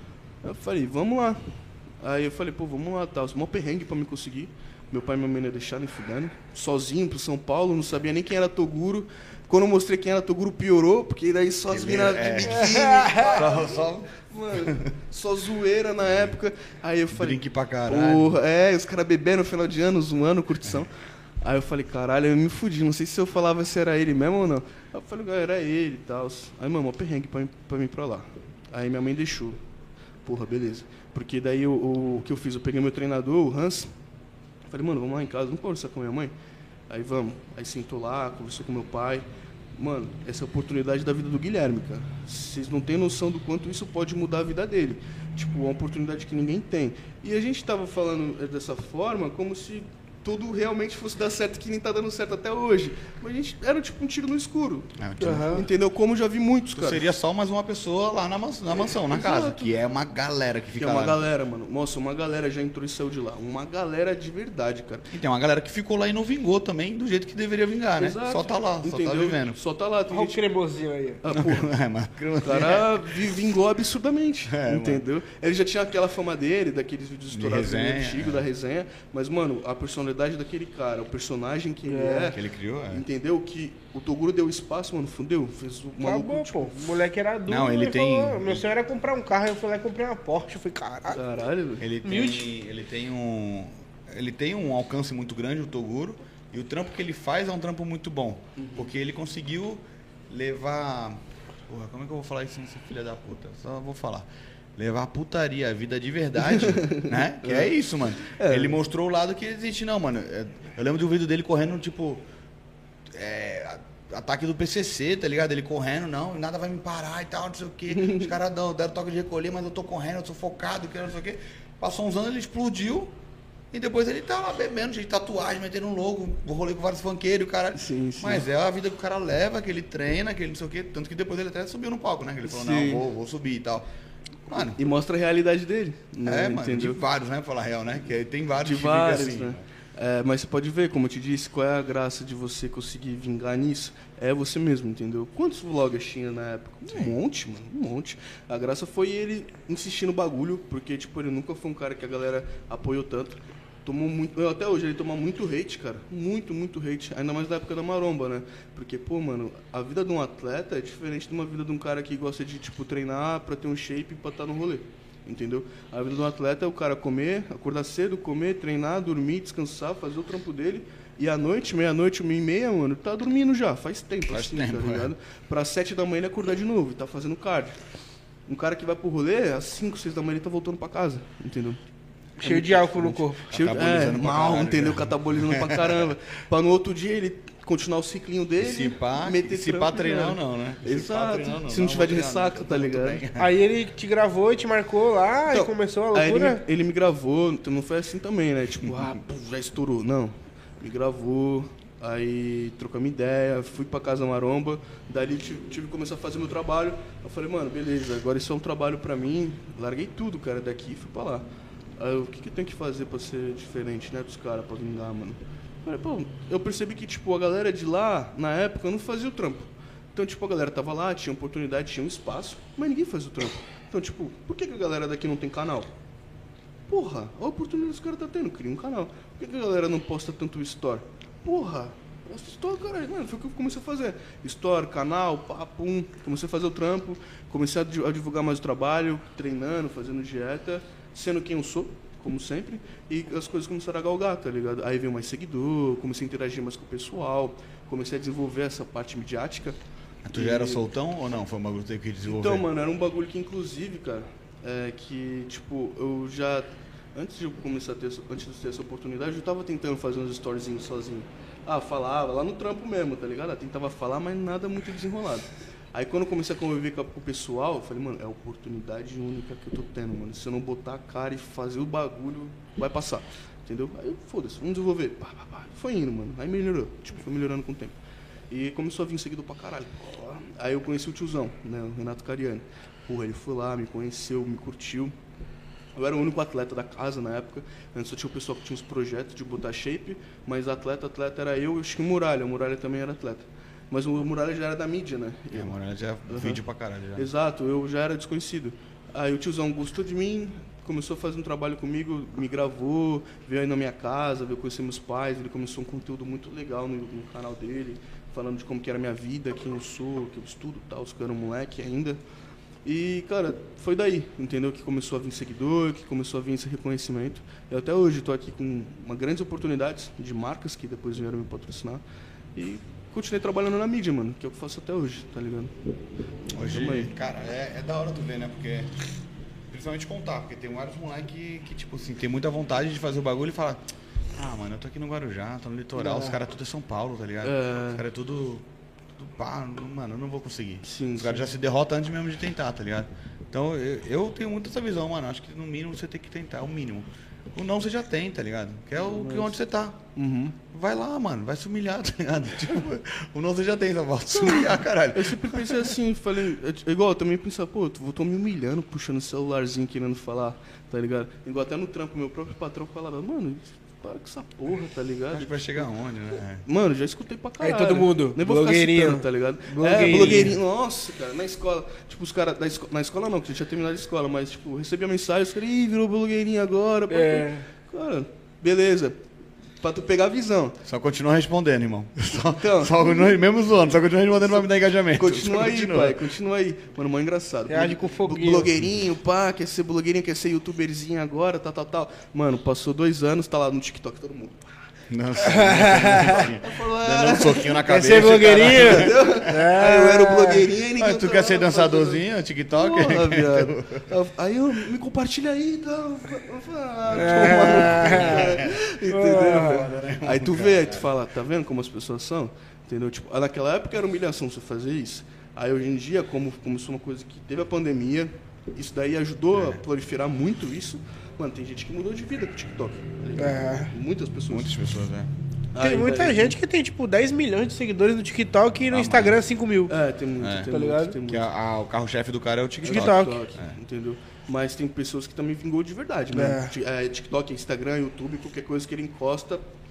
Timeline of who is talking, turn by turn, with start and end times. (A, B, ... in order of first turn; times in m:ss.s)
0:00.4-0:20.9 A
0:11.7-0:14.9 B
0:12.9-0:13.3 C
0:16.1-0:16.3 B
0:17.1-0:18.3 B
0:21.4-0:29.6 A
0:30.2-0:33.9 A
0:34.7-0:36.3 A
0:36.9-0:54.9 A
0:55.0-0:55.6 B
0:55.2-0:55.6 C
0:55.5-0:57.0 A
0:56.8-1:01.2 B
0:58.9-0:59.8 A
1:00.8-1:05.1 A
1:05.1-1:09.6 B
1:08.0-1:10.4 A
1:10.1-1:11.2 C
1:11.2-1:11.7 A
1:11.3-1:13.1 B
1:12.4-1:22.4 A
1:14.5-1:15.0 B
1:17.3-1:18.4 B
1:21.9-1:22.3 C
1:22.3-1:23.0 B
1:22.9-1:26.9 A
1:26.0-1:31.2 C
1:27.5-1:28.6 B
1:31.1-1:31.9 A
1:31.8-1:52.2 B
1:32.0-1:32.5 C
1:38.6-1:38.9 A
1:46.5-1:47.7 A
1:48.3-1:48.8 A
1:53.1-2:03.1 B
1:57.9-1:58.3 A
2:03.7-2:13.9 B
2:07.8-2:08.4 A
2:12.5-2:13.0 A
2:14.5-2:14.8 B
2:14.6-2:17.0 A
2:16.2-2:19.6 B
2:18.6-2:57.8 A
2:26.9-2:27.1 B
2:54.3-2:55.1 B
2:58.5-3:01.8 A
3:02.4-3:06.1 B
3:02.4-3:03.5 C
3:03.5-3:13.2 A
3:08.6-3:13.5 B
3:13.4-3:16.6 C
3:15.5-3:31.5 A
3:32.0-3:45.9 A
3:46.9-4:09.8 A
4:10.2-4:12.6 B
4:10.3-4:10.8 A
4:12.2-4:38.0 A
4:38.5-4:45.1 A
4:46.0-4:55.8 A
4:55.5-4:57.3 B
4:56.3-4:56.6 A
4:57.2-5:12.2 A
5:12.8-5:22.0 A
5:22.6-5:25.8 A
5:26.6-5:28.9 B
5:26.6-5:27.1 A
5:29.7-5:33.8 B
5:34.3-5:50.0 B
5:36.0-5:36.4 A
5:37.4-5:38.0 A
5:40.8-5:41.5 A
5:49.0-5:49.6 A
5:50.2-5:50.6 A
5:50.7-5:56.0 B
5:54.3-6:05.8 A
6:05.3-6:06.6 B
6:06.6-6:19.2 A
6:07.6-6:10.6 C
6:09.8-6:10.6 B
6:17.1-6:17.7 C
6:19.8-6:20.8 A
6:20.9-6:26.2 B
6:22.3-6:23.4 A
6:24.4-6:34.7 A
6:27.7-6:28.7 C
6:35.1-6:39.4 B
6:35.4-6:36.5 C
6:36.6-6:37.8 A
6:37.8-6:40.7 C
6:38.4-7:04.7 A
6:40.9-6:44.1 B
6:47.1-6:51.1 B
6:47.1-6:48.6 C
6:49.1-6:49.9 C
6:59.5-6:59.8 B
7:03.4-7:03.9 C
7:04.5-7:05.3 B
7:05.7-7:06.6 A
7:05.8-7:10.0 C
7:08.8-7:09.4 B
7:09.9-7:11.5 A
7:10.4-7:10.7 B
7:10.7-7:11.2 C
7:11.2-7:13.7 B
7:12.8-7:19.6 A
7:12.9-7:13.4 C
7:16.3-7:16.7 C